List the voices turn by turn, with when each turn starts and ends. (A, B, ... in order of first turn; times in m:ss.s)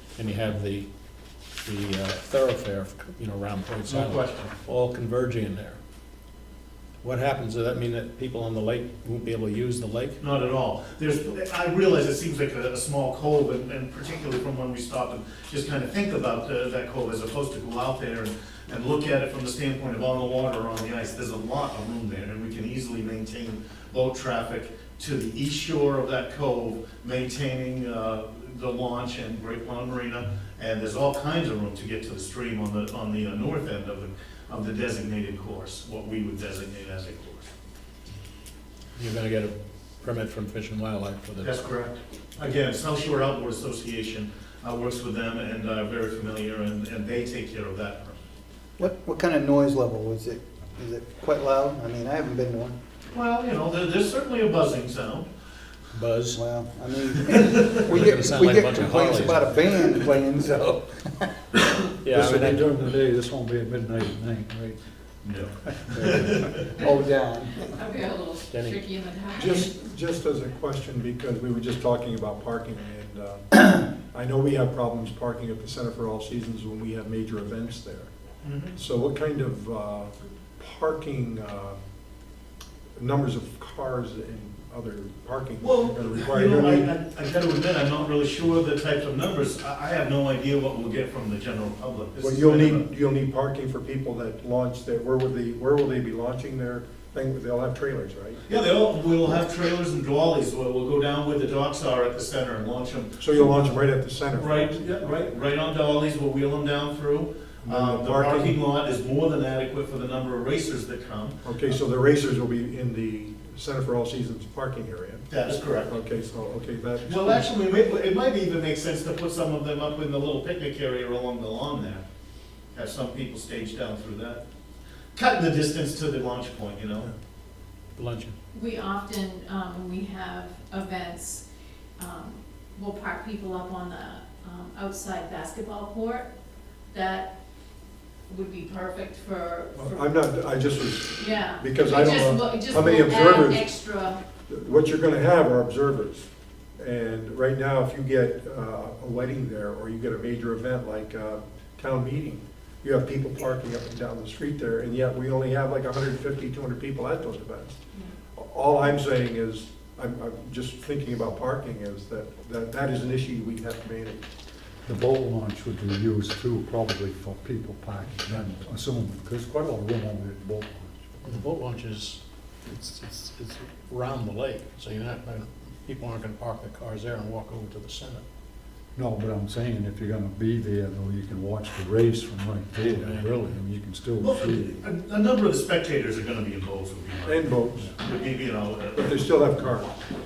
0:00.2-0:00.9 A
0:01.6-0:05.8 A
0:03.8-0:04.5 B
0:07.0-0:10.2 A
0:10.2-0:37.5 B
0:39.0-0:41.6 A
0:41.4-0:48.2 B
0:48.8-0:52.8 C
0:53.1-0:55.3 B
0:55.9-0:56.4 A
0:56.4-1:00.8 C
0:57.1-0:57.8 B
0:57.8-0:59.6 A
1:02.0-1:02.7 A
1:02.0-1:04.8 D
1:05.2-1:06.7 B
1:06.8-1:07.5 C
1:07.7-1:09.7 E
1:08.5-1:08.8 A
1:09.3-1:18.1 F
1:18.4-1:18.8 B
1:18.7-1:21.8 F
1:23.0-1:26.9 F
1:25.6-1:32.8 B
1:32.2-1:38.4 F
1:38.4-1:43.3 B
1:43.2-1:45.1 F
1:44.3-1:51.4 B
1:47.6-1:48.6 F
1:51.4-1:57.5 F
1:55.3-1:55.9 B
1:57.0-2:02.0 B
2:02.7-2:04.4 B
2:05.1-2:07.1 B
2:08.0-2:08.3 A
2:08.5-2:11.4 E
2:12.0-2:16.3 E
2:16.9-2:17.3 E
2:18.3-2:20.0 E
2:19.8-2:23.7 F
2:21.2-2:24.2 E
2:24.5-2:37.7 F
2:38.3-2:44.2 F
2:44.8-2:51.4 D
2:51.2-2:52.2 A
2:52.7-2:58.2 A
2:58.9-3:04.7 D
3:02.8-3:03.5 A
3:04.2-3:09.3 B
3:07.2-3:07.9 F
3:08.9-3:10.0 F